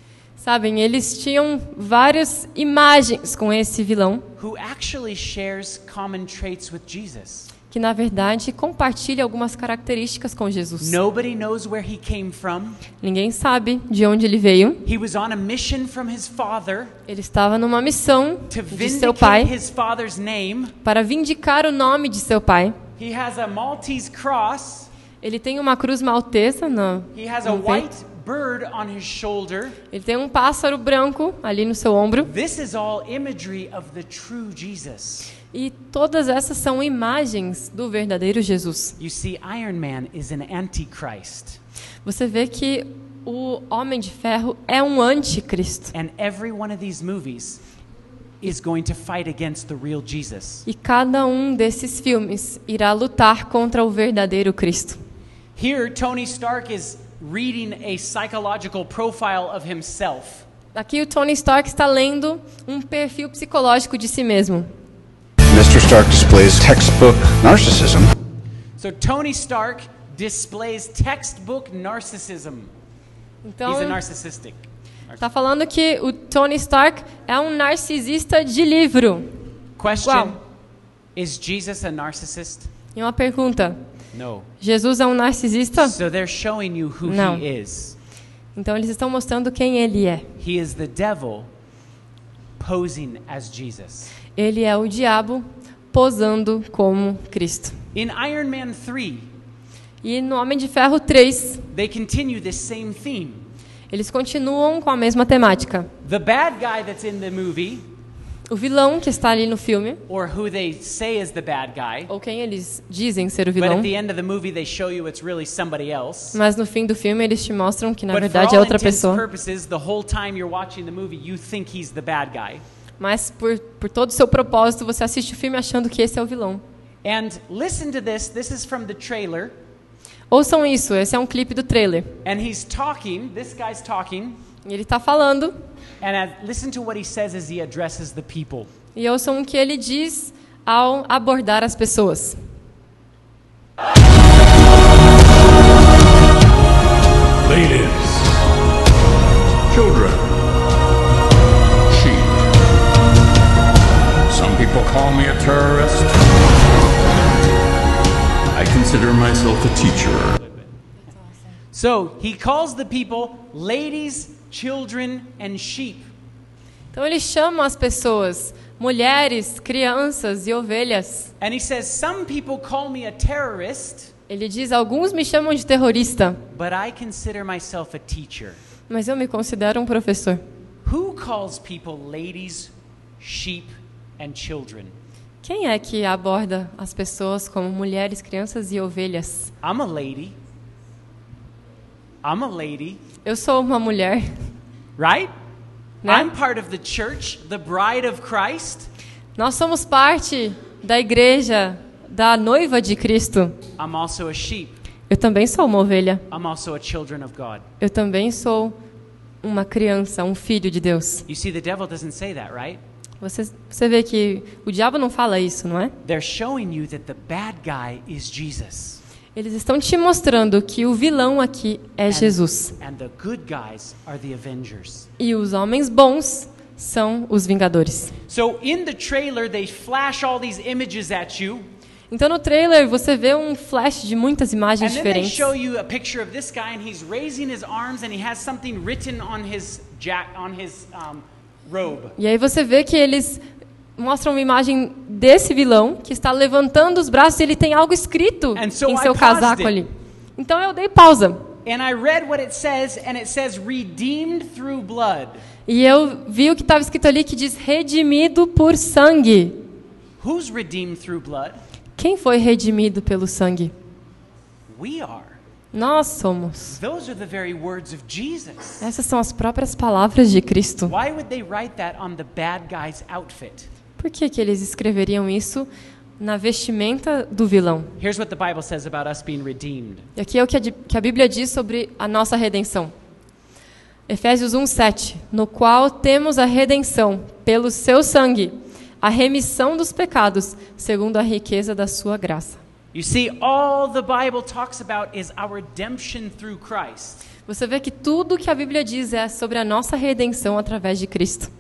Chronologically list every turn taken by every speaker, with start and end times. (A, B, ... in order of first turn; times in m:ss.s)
0:00.4-0:04.3 A
0:04.4-0:07.5 B
0:07.7-0:11.0 A
0:10.8-0:12.8 B
0:13.0-0:14.8 A
0:14.8-0:16.9 B
0:17.1-0:19.5 A
0:18.5-0:20.8 B
0:20.8-0:22.8 A
0:23.0-0:24.9 B
0:25.2-0:27.9 A
0:27.1-0:29.8 B
0:29.9-0:32.3 A
0:32.2-0:35.3 B
0:35.5-0:39.0 A
0:39.0-0:41.6 B
0:42.0-0:45.9 A
0:45.9-0:47.6 B
0:48.4-0:50.6 B
0:50.7-0:55.0 A
0:55.6-1:00.4 B
1:00.7-1:04.7 A
1:05.5-1:08.1 C
1:08.8-1:12.7 B
1:13.4-1:14.0 A
1:13.6-1:15.2 B
1:15.2-1:19.3 A
1:19.8-1:20.4 B
1:20.0-1:20.4 A
1:21.2-1:22.7 B
1:23.0-1:23.8 A
1:24.1-1:24.5 B
1:24.6-1:26.0 A
1:25.8-1:28.0 B
1:27.0-1:27.4 A
1:28.6-1:30.3 A
1:30.4-1:31.5 B
1:32.6-1:34.1 B
1:34.4-1:37.8 A
1:37.9-1:39.3 B
1:40.0-1:41.6 A
1:41.7-1:43.5 B
1:43.9-1:45.9 A
1:46.0-1:47.9 B
1:48.5-1:50.0 A
1:50.1-1:52.1 B
1:52.1-1:53.9 A
1:53.6-1:56.4 B
1:56.3-1:59.2 A
1:58.1-2:02.6 B
2:03.0-2:06.6 A
2:07.0-2:09.6 B
2:10.3-2:12.1 A
2:12.2-2:14.4 B
2:14.6-2:15.6 A
2:16.0-2:18.7 B
2:19.0-2:22.4 A
2:27.4-2:28.4 D
2:29.7-2:30.2 D
2:31.9-2:32.4 D
2:34.3-2:36.2 D
2:38.5-2:40.4 D
2:41.7-2:46.1 B
2:46.9-2:51.3 A
2:51.4-2:54.1 B
2:54.3-2:56.4 A
2:56.5-2:58.6 B
2:58.9-3:00.4 A
3:00.8-3:05.0 B
3:05.4-3:09.5 A
3:09.6-3:10.4 B
3:12.2-3:13.0 B
3:13.2-3:14.3 A
3:15.0-3:15.3 B
3:16.0-3:16.3 A
3:16.1-3:18.9 B
3:19.4-3:23.6 A
3:23.8-3:24.8 B
3:25.1-3:26.2 A
3:26.3-3:27.7 B
3:27.8-3:28.8 A
3:29.4-3:31.3 A
3:31.3-3:32.8 B
3:33.2-3:36.0 A
3:36.0-3:39.0 B
3:39.4-3:42.7 A
3:42.1-3:45.1 B
3:45.2-3:48.1 A
3:48.3-3:51.7 B
3:52.1-3:55.5 A
3:54.8-4:02.2 B
4:02.2-4:03.4 A
4:04.0-4:11.5 A
4:08.6-4:09.8 B
4:11.6-4:15.4 B
4:15.7-4:19.6 A
4:20.2-4:21.6 B
4:22.0-4:23.7 A
4:24.7-4:25.4 B
4:25.7-4:26.8 A
4:26.7-4:28.9 B
4:28.8-4:31.0 A
4:30.8-4:33.7 B
4:34.0-4:37.9 A
4:38.0-4:40.0 B
4:40.2-4:42.9 A
4:44.1-4:52.6 A
4:52.9-4:57.2 B
4:57.5-5:01.5 A